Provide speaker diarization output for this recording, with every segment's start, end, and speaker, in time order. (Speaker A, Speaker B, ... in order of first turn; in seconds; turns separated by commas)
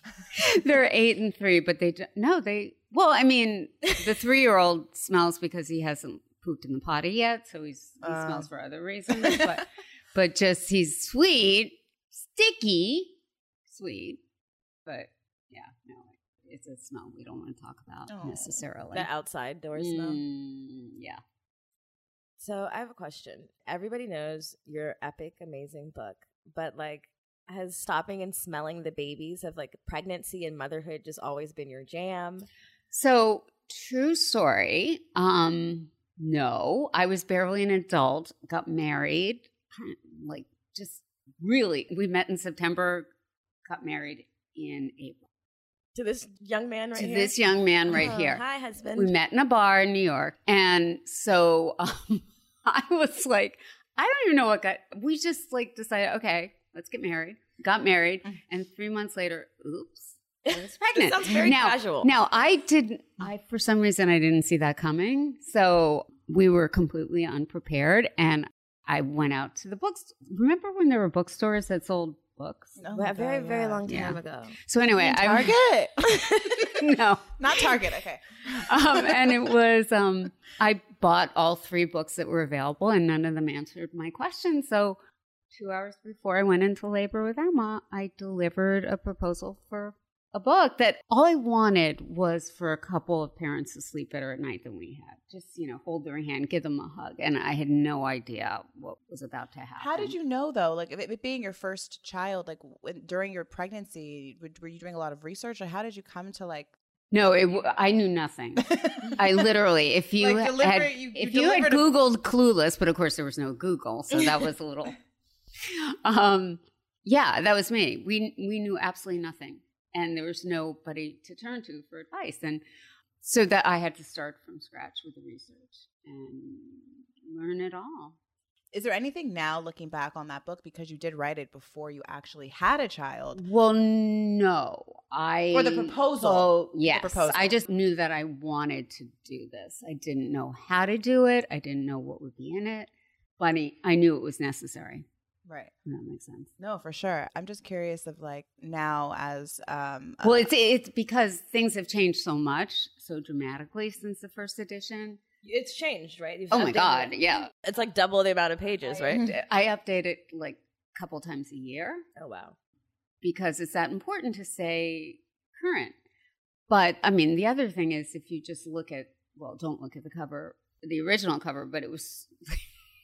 Speaker A: 0.3-13.1, Speaker B: 8.0-8.5, Speaker B: 9.2-9.6, Speaker A: 13.7-14.2, Speaker A: 14.9-19.1, Speaker B: 18.1-18.6, Speaker C: 18.9-20.2, Speaker A: 19.8-21.2, Speaker C: 22.4-32.5, Speaker A: 32.9-43.1, Speaker A: 43.6-45.3, Speaker C: 46.0-49.1, Speaker A: 47.0-48.4, Speaker A: 49.0-72.8, Speaker C: 60.5-62.1, Speaker B: 72.8-73.9, Speaker C: 72.9-74.6, Speaker A: 73.9-75.6, Speaker B: 75.0-76.7, Speaker C: 76.1-76.5, Speaker A: 76.7-77.7, Speaker B: 77.4-79.5, Speaker A: 78.5-85.0, Speaker A: 85.5-100.2, Speaker B: 99.8-106.7, Speaker A: 107.1-115.0, Speaker B: 108.6-109.4, Speaker B: 110.2-111.9, Speaker A: 115.6-122.6, Speaker A: 123.2-128.2, Speaker B: 128.7-133.4, Speaker A: 133.3-145.1, Speaker B: 135.5-137.6, Speaker B: 145.5-145.7, Speaker A: 145.9-146.5, Speaker B: 146.6-150.5, Speaker A: 150.2-155.2, Speaker C: 155.4-159.2, Speaker A: 156.5-157.5, Speaker A: 158.9-162.1, Speaker B: 159.1-159.4, Speaker C: 162.2-162.6, Speaker A: 163.2-165.9, Speaker A: 166.7-172.6